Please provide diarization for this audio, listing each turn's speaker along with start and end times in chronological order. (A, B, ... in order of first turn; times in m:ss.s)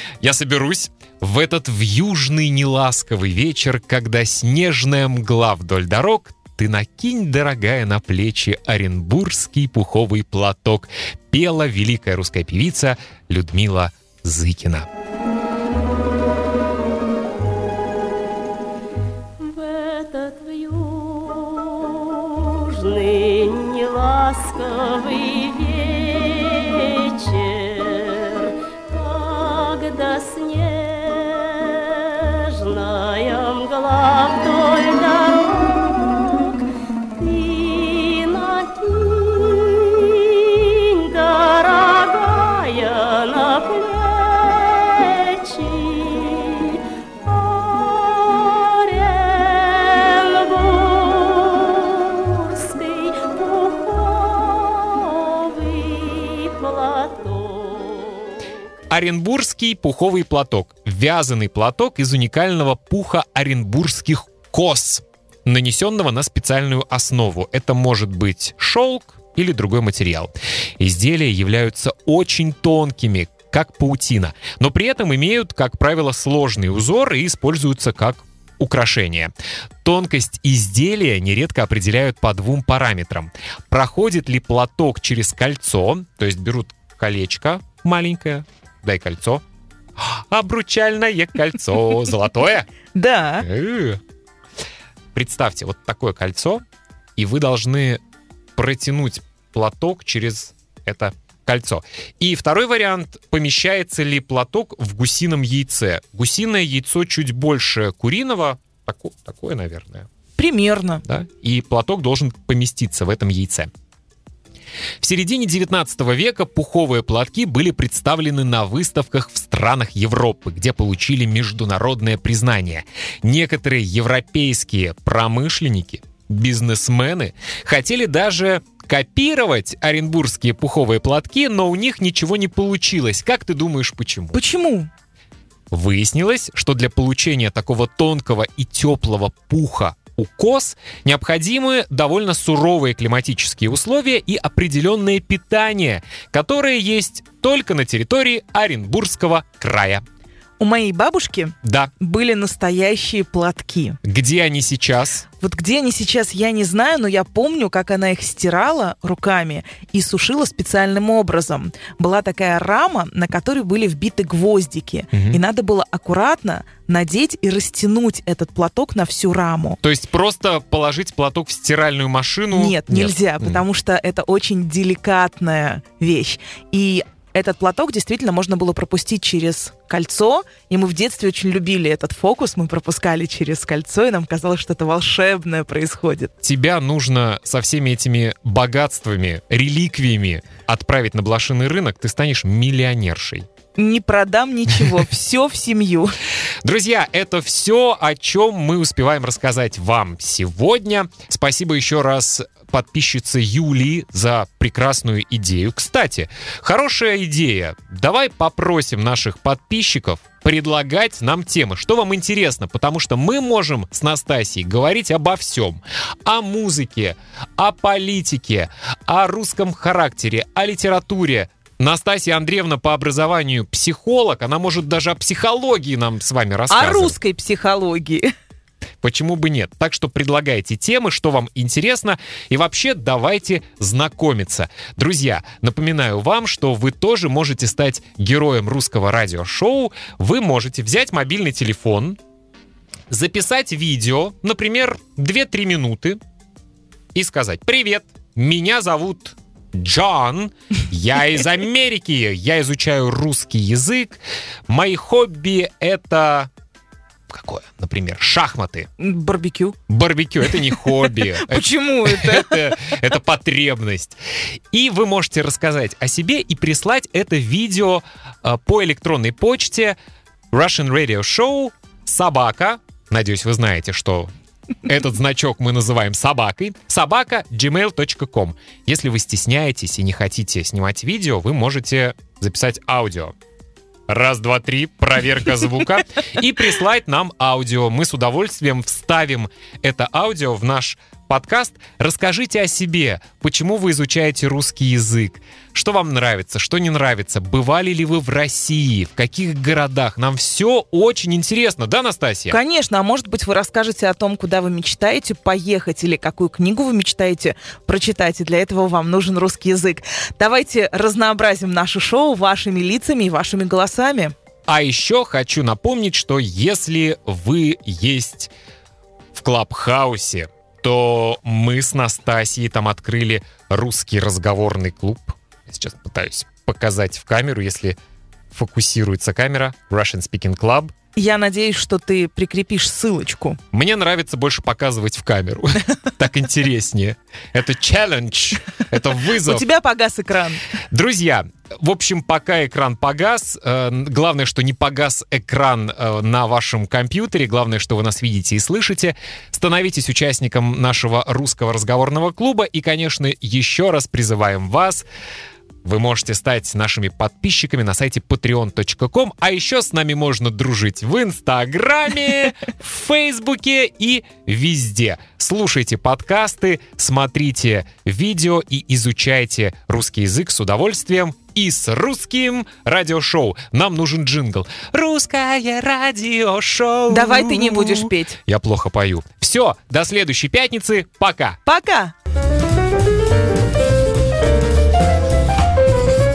0:00.2-0:14.9 A
0:19.4-0:36.6 B
0:37.2-0:58.3 B
0:58.9-1:19.3 A
1:19.8-1:29.4 A
1:30.1-1:32.7 A
1:33.0-1:33.5 C
1:33.4-1:34.0 A
1:35.2-1:36.6 A
1:37.2-1:38.0 A
1:38.6-1:50.1 A
1:50.4-1:51.0 C
1:51.1-1:53.7 A
1:55.0-2:14.4 A
2:14.3-2:14.9 C
2:15.7-2:30.0 A
2:30.6-2:34.0 C
2:31.6-2:31.9 A
2:34.0-2:35.3 A
2:35.4-2:49.8 C
2:45.1-2:45.4 A
2:49.8-2:53.6 A
2:52.5-3:06.3 C
3:06.4-3:13.4 A
3:13.8-3:16.1 C
3:16.6-3:47.2 A
3:46.7-3:48.3 C
3:49.0-4:02.2 A
4:03.1-4:06.2 A
4:07.2-4:16.5 A
4:17.3-4:18.9 A
4:19.0-4:19.8 C
4:19.9-4:24.2 A
4:20.7-4:22.8 C
4:24.7-4:30.0 A
4:30.5-4:34.3 A
4:34.8-4:43.3 A
4:44.1-5:02.6 A
5:02.5-5:14.3 C
5:14.7-5:18.5 A
5:19.3-5:28.0 A
5:28.5-5:30.9 A
5:31.2-5:33.6 C
5:33.7-5:39.7 A
5:39.4-5:40.6 C
5:40.8-5:55.1 A
5:55.8-6:21.6 A
6:17.1-6:18.4 C
6:21.7-6:22.1 C